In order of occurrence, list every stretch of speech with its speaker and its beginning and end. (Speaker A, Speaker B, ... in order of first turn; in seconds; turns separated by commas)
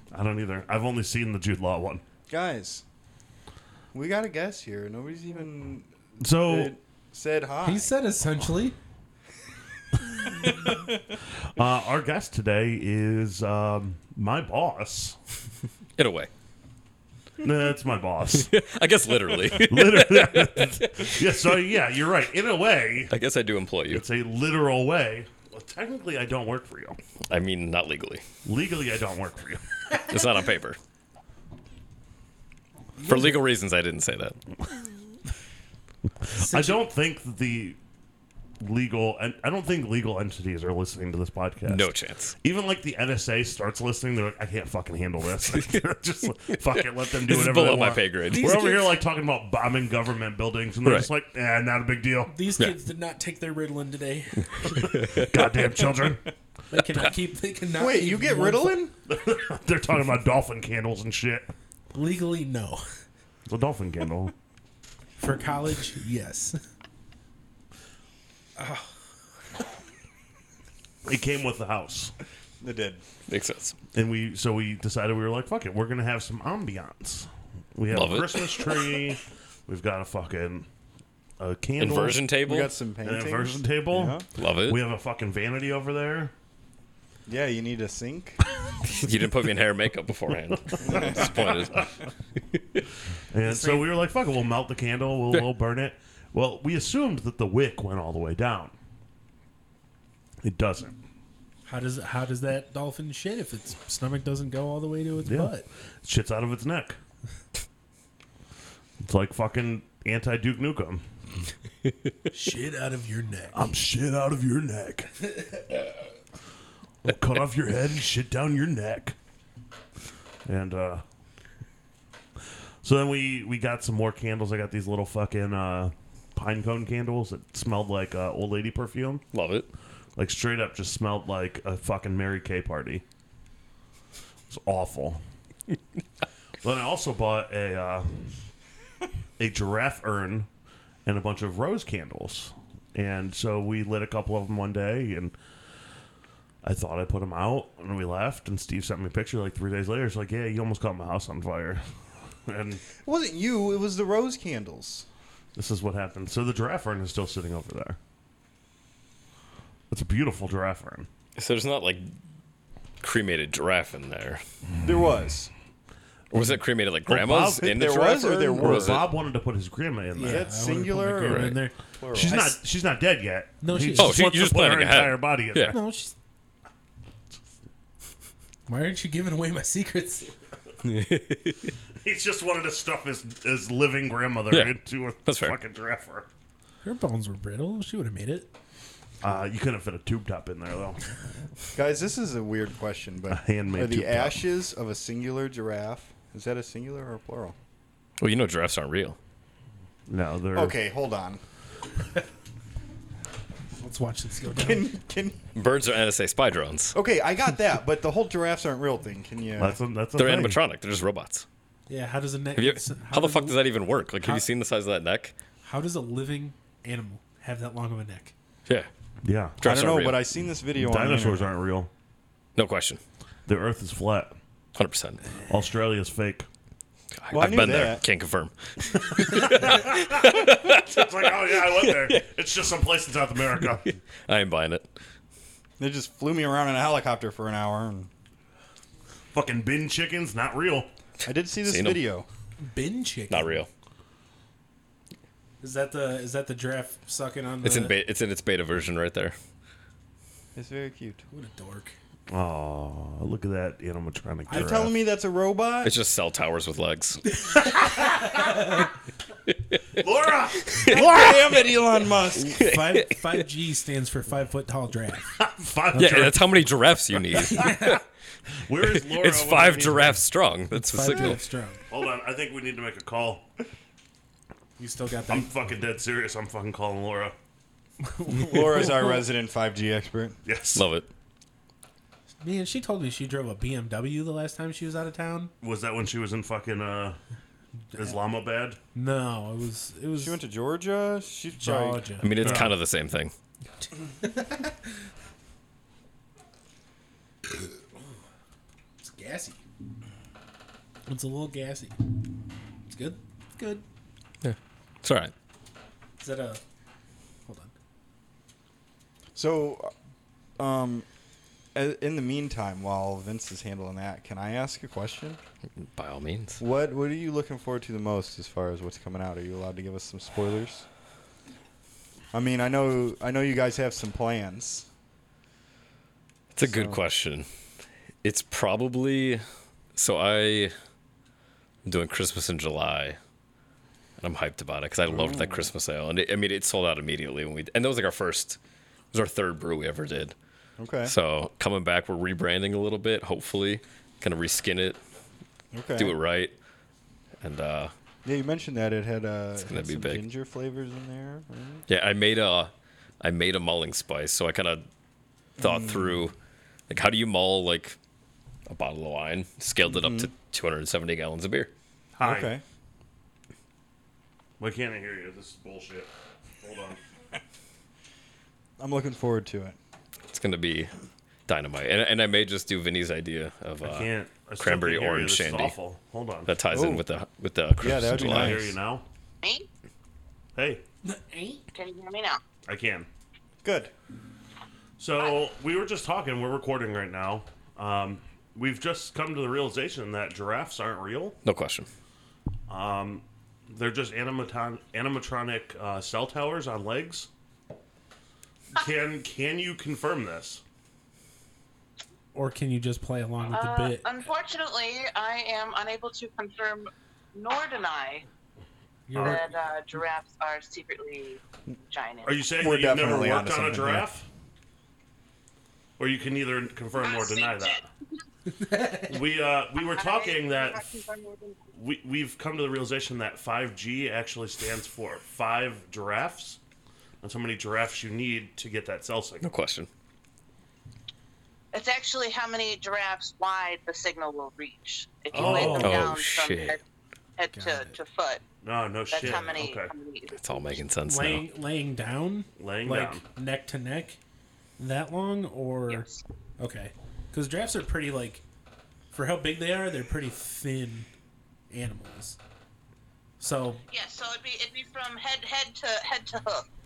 Speaker A: 0.1-2.0, Speaker B: 2.3-2.8, Speaker B: 3.9-7.9, Speaker A: 6.2-6.7, Speaker C: 7.6-8.8, Speaker B: 10.6-11.0, Speaker A: 11.4-15.2, Speaker D: 16.0-16.3, Speaker A: 17.4-18.5, Speaker D: 18.3-21.2, Speaker A: 19.6-23.1, Speaker D: 23.1-24.0, Speaker A: 23.9-27.0, Speaker D: 27.3-28.2, Speaker A: 28.4-29.6, Speaker D: 30.1-30.8, Speaker C: 33.0-33.4, Speaker D: 33.0-34.4, Speaker A: 36.3-37.8, Speaker C: 36.4-36.8, Speaker A: 38.6-41.9, Speaker D: 41.6-42.3, Speaker A: 42.4-52.3, Speaker D: 45.5-45.8, Speaker D: 46.6-48.6, Speaker C: 48.3-49.0, Speaker D: 50.8-51.1, Speaker C: 52.3-54.9, Speaker D: 54.7-55.3, Speaker A: 55.1-56.2, Speaker C: 56.7-58.8, Speaker B: 57.7-58.9, Speaker A: 59.1-61.5, Speaker C: 61.9-62.8, Speaker A: 63.5-64.3, Speaker C: 65.2-66.6, Speaker C: 68.6-68.8, Speaker A: 71.0-72.1, Speaker B: 72.6-73.0, Speaker D: 73.3-73.8, Speaker A: 73.9-80.7, Speaker D: 77.9-78.8, Speaker A: 81.4-82.3, Speaker D: 81.8-82.7, Speaker B: 82.4-84.2, Speaker A: 83.0-86.3, Speaker D: 84.4-84.8, Speaker B: 87.3-88.4, Speaker D: 88.8-91.9, Speaker A: 90.8-91.8, Speaker B: 90.8-91.3, Speaker A: 93.3-98.7, Speaker C: 93.4-93.9, Speaker A: 100.4-100.9, Speaker C: 101.7-105.7, Speaker A: 105.2-107.0, Speaker A: 109.0-111.0, Speaker C: 112.3-113.6, Speaker A: 113.5-115.1, Speaker A: 117.0-119.2, Speaker A: 120.5-121.0, Speaker A: 122.8-129.2, Speaker D: 129.3-129.7, Speaker A: 130.2-133.0, Speaker A: 134.5-135.2, Speaker A: 136.6-138.3, Speaker A: 139.4-140.5, Speaker A: 141.1-145.3, Speaker A: 146.6-151.8, Speaker A: 152.4-152.8, Speaker B: 153.0-155.1, Speaker A: 155.5-158.0, Speaker A: 159.9-161.1, Speaker D: 161.4-162.1, Speaker D: 163.0-164.4, Speaker B: 164.8-165.5, Speaker D: 166.3-169.1, Speaker A: 167.1-170.5, Speaker B: 167.6-169.1, Speaker C: 170.2-172.6, Speaker B: 170.2-172.4, Speaker D: 171.2-171.6, Speaker A: 172.1-175.8, Speaker C: 173.6-174.2, Speaker D: 174.0-175.8, Speaker C: 175.7-176.1, Speaker C: 178.7-180.3, Speaker D: 180.8-181.7, Speaker A: 182.0-186.3, Speaker D: 184.5-185.6, Speaker C: 186.8-188.5, Speaker A: 189.2-191.0, Speaker B: 191.7-197.6, Speaker A: 193.3-194.4, Speaker D: 198.2-199.2, Speaker A: 200.1-200.8, Speaker B: 200.5-201.4, Speaker C: 203.8-204.9, Speaker B: 204.6-205.4, Speaker D: 205.5-206.9, Speaker B: 206.9-209.8, Speaker A: 209.6-210.6, Speaker D: 210.2-211.4, Speaker C: 211.9-214.5, Speaker D: 212.6-215.3, Speaker C: 215.6-218.3, Speaker A: 219.2-219.6, Speaker D: 219.6-220.2, Speaker B: 219.6-221.5, Speaker A: 220.7-221.9, Speaker D: 222.6-223.0, Speaker A: 223.5-224.3, Speaker D: 224.8-225.3, Speaker A: 225.5-226.5, Speaker D: 227.2-232.2, Speaker B: 227.3-228.1, Speaker A: 229.2-233.9, Speaker D: 234.2-234.9, Speaker B: 235.8-238.1, Speaker A: 239.3-240.9, Speaker B: 241.2-242.3, Speaker D: 241.6-242.0, Speaker C: 242.6-243.6, Speaker D: 243.3-243.7, Speaker C: 245.6-247.9, Speaker D: 247.6-249.3, Speaker B: 250.5-251.2, Speaker C: 251.3-251.9, Speaker A: 252.3-255.0, Speaker C: 254.5-254.8, Speaker B: 254.5-255.9, Speaker D: 255.8-257.3, Speaker C: 257.5-258.6, Speaker A: 260.0-261.4, Speaker D: 260.7-261.3, Speaker B: 260.9-262.8, Speaker D: 262.4-263.1, Speaker C: 262.5-265.3, Speaker A: 265.4-266.7, Speaker D: 265.9-267.8, Speaker C: 267.4-268.0, Speaker A: 268.6-270.2, Speaker D: 268.8-271.4, Speaker C: 270.7-271.8, Speaker A: 271.9-273.4, Speaker C: 274.8-275.5, Speaker A: 275.3-277.3, Speaker C: 278.0-279.2, Speaker B: 278.3-280.4, Speaker A: 280.4-280.8, Speaker D: 280.7-281.1, Speaker C: 282.4-285.5, Speaker A: 285.6-287.2, Speaker A: 287.9-288.8, Speaker C: 288.9-290.4, Speaker B: 290.2-292.1, Speaker C: 291.6-292.7, Speaker D: 292.2-293.3, Speaker A: 292.4-292.7, Speaker C: 293.8-294.8, Speaker C: 299.0-299.6, Speaker C: 301.1-302.0, Speaker C: 302.9-303.8, Speaker D: 304.4-305.3, Speaker C: 306.2-306.6, Speaker C: 307.4-307.7, Speaker B: 309.3-309.9, Speaker B: 310.6-311.1, Speaker B: 311.7-315.4, Speaker D: 315.8-316.6, Speaker B: 316.6-320.9, Speaker B: 322.3-324.9, Speaker D: 326.5-327.5, Speaker B: 326.6-327.0, Speaker D: 328.2-329.4, Speaker D: 329.9-330.7, Speaker D: 331.8-333.2, Speaker D: 334.2-338.6, Speaker B: 335.1-335.6, Speaker D: 339.1-340.3, Speaker B: 340.8-341.1, Speaker D: 341.0-345.0, Speaker B: 345.7-346.1, Speaker D: 345.9-346.5, Speaker D: 347.4-347.9, Speaker B: 348.2-351.8, Speaker D: 349.6-350.2, Speaker D: 351.9-354.8, Speaker B: 355.6-356.2, Speaker D: 355.6-356.3, Speaker D: 356.9-358.0, Speaker D: 358.7-361.7, Speaker B: 359.9-360.3, Speaker A: 362.2-362.5, Speaker B: 362.2-362.6, Speaker A: 364.6-366.1, Speaker A: 366.6-367.0, Speaker B: 368.8-369.8, Speaker D: 370.3-370.9, Speaker D: 371.5-375.7, Speaker A: 373.8-376.5, Speaker D: 376.5-378.7, Speaker B: 376.7-377.0, Speaker B: 377.8-378.8, Speaker A: 378.1-379.0, Speaker E: 379.4-379.7, Speaker A: 380.6-380.8, Speaker C: 381.0-381.6, Speaker E: 381.7-382.4, Speaker A: 382.7-383.1, Speaker B: 383.6-383.9, Speaker A: 385.0-391.4, Speaker D: 391.4-391.9, Speaker A: 392.7-397.3, Speaker A: 398.7-400.6, Speaker C: 402.3-404.1, Speaker E: 403.5-408.2, Speaker C: 409.1-409.4, Speaker A: 409.1-409.4, Speaker E: 409.2-412.6, Speaker A: 412.2-414.3, Speaker B: 412.6-414.1, Speaker A: 416.0-417.8, Speaker E: 416.9-417.8, Speaker C: 418.5-419.2, Speaker A: 419.1-420.8, Speaker E: 419.7-421.6, Speaker A: 421.7-426.6, Speaker A: 427.2-429.4, Speaker D: 429.4-429.9, Speaker E: 431.7-436.8, Speaker C: 435.3-436.1, Speaker A: 435.3-436.1, Speaker D: 435.8-436.8, Speaker E: 437.4-438.4, Speaker C: 437.5-438.0, Speaker A: 438.6-439.9, Speaker E: 439.1-440.8, Speaker C: 439.2-439.5, Speaker D: 440.3-441.4, Speaker C: 441.1-444.2, Speaker A: 442.6-443.2, Speaker C: 444.8-446.1, Speaker E: 445.9-446.2, Speaker C: 446.6-448.4, Speaker C: 449.1-451.1, Speaker C: 451.7-452.4, Speaker C: 453.4-453.8, Speaker E: 453.9-456.6